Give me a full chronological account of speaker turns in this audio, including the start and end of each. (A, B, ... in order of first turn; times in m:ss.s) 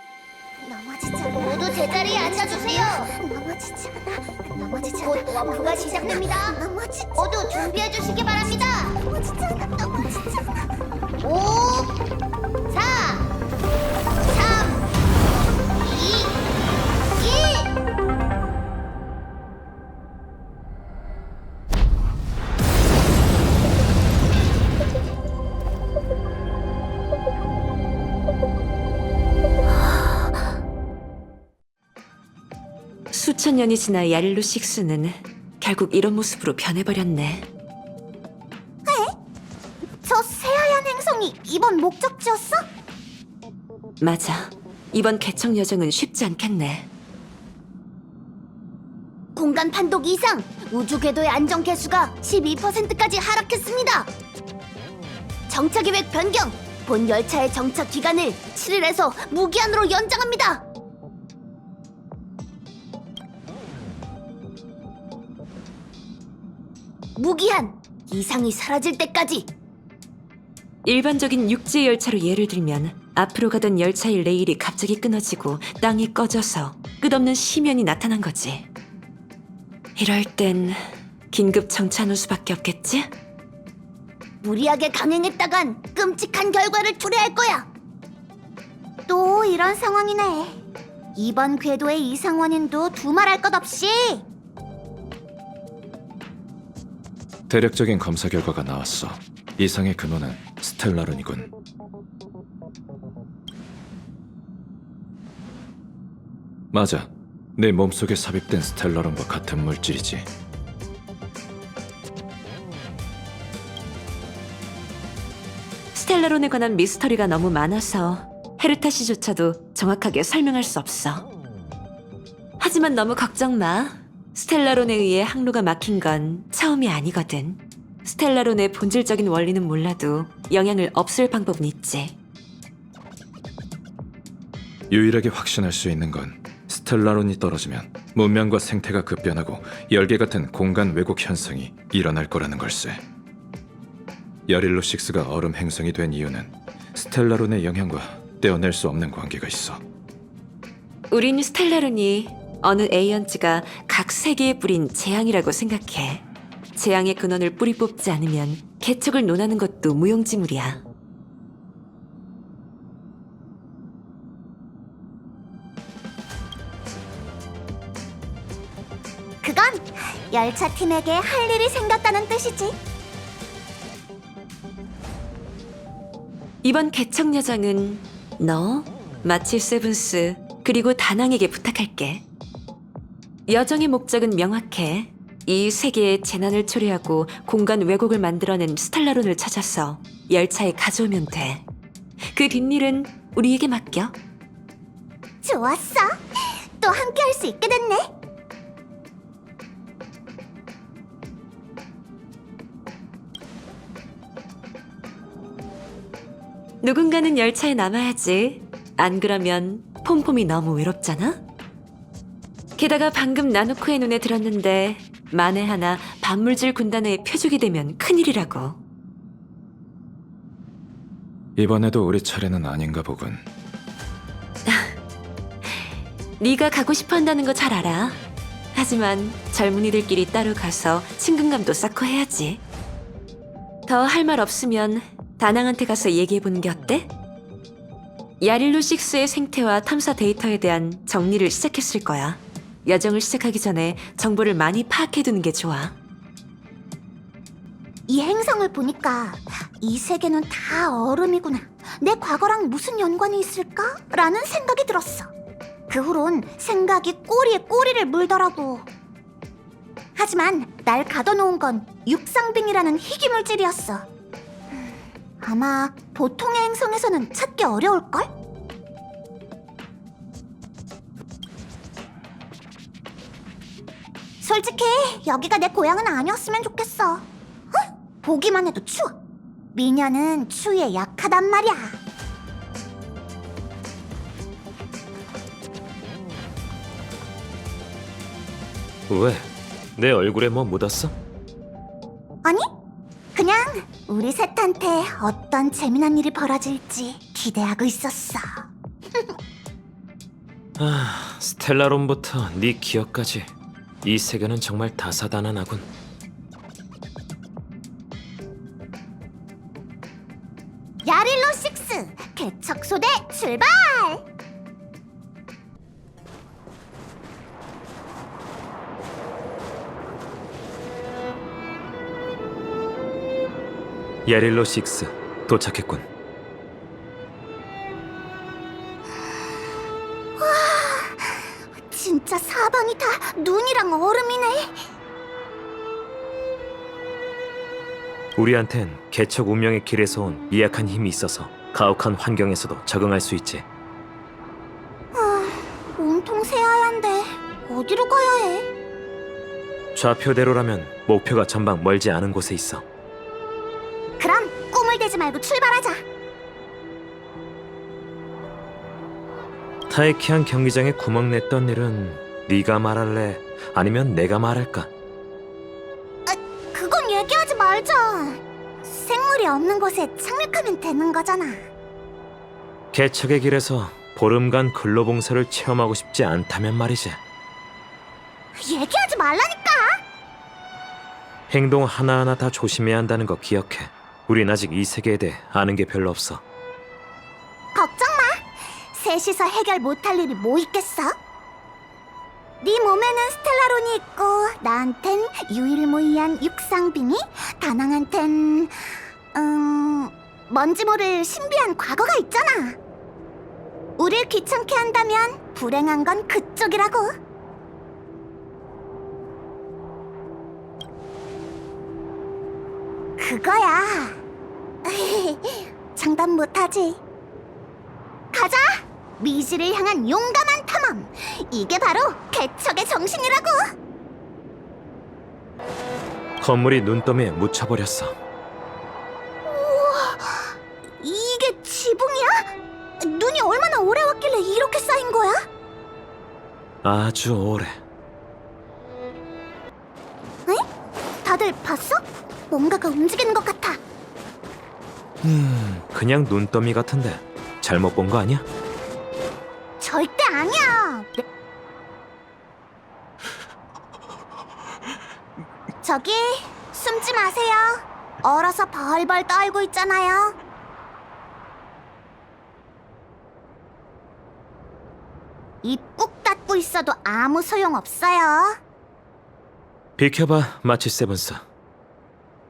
0:00.6-0:07.8 A
0:01.4-0:03.1 B
0:05.0-0:06.6 B
0:07.2-0:09.0 B
0:08.5-0:10.7 A
0:11.2-0:11.9 B
0:12.7-0:13.3 B
0:14.3-0:14.8 B
0:15.9-0:16.4 B
0:17.2-0:17.7 B
0:33.1-0:37.5 C
0:38.9-0:39.1 A
0:40.0-0:42.6 A
0:44.0-0:46.9 C
0:49.4-0:54.1 B
0:55.5-1:00.6 B
1:07.2-1:09.5 B
1:10.8-1:18.7 C
1:20.0-1:23.1 C
1:24.4-1:27.7 B
1:29.1-1:30.6 A
1:31.2-1:34.2 A
1:37.5-1:41.5 D
1:46.7-1:50.3 D
1:55.9-2:01.3 C
2:02.6-2:12.2 C
2:14.9-2:23.0 D
2:24.5-2:29.8 D
2:31.1-2:40.8 C
2:49.4-2:52.8 A
2:56.6-3:02.2 C
3:03.5-3:11.7 C
3:12.3-3:14.2 C
3:15.4-3:16.2 A
3:16.8-3:18.1 A
3:26.8-3:31.4 C
3:32.8-3:38.8 C
3:41.6-3:43.4 D
3:44.7-3:44.9 C
3:46.4-3:48.2 C
3:48.7-3:52.6 C
3:53.9-3:57.1 C
3:58.4-4:06.0 C
4:08.1-4:15.3 A
4:15.9-4:18.9 A
4:20.2-4:24.1 A
4:25.4-4:28.3 A
4:34.4-4:39.1 A
4:39.7-4:42.0 A
4:49.1-4:51.1 E
4:53.4-4:59.4 A
5:00.8-5:03.5 E
5:04.0-5:05.9 E
5:11.0-5:14.2 A
5:24.2-5:26.1 E
5:30.4-5:34.8 A
5:38.4-5:43.7 E
5:45.1-5:48.7 A
5:50.0-5:52.8 E
5:54.2-5:56.0 A
5:59.9-6:04.9 E
6:06.3-6:11.6 A
6:12.9-6:17.2 E
6:18.6-6:20.0 A
6:21.5-6:26.4 E
6:27.8-6:31.2 A
6:32.6-6:38.7 A
6:39.3-6:42.8 A
6:44.0-6:47.1 A
6:53.2-6:54.2 A
6:54.8-6:57.0 A
6:58.3-7:03.7 A
7:06.4-7:08.2 E
7:09.4-7:15.4 A
7:16.8-7:17.8 E
7:21.2-7:23.8 A
7:25.2-7:28.5 E
7:29.8-7:31.2 A
7:35.8-7:40.4 A
7:45.6-7:48.6 A
7:50.0-7:51.4 E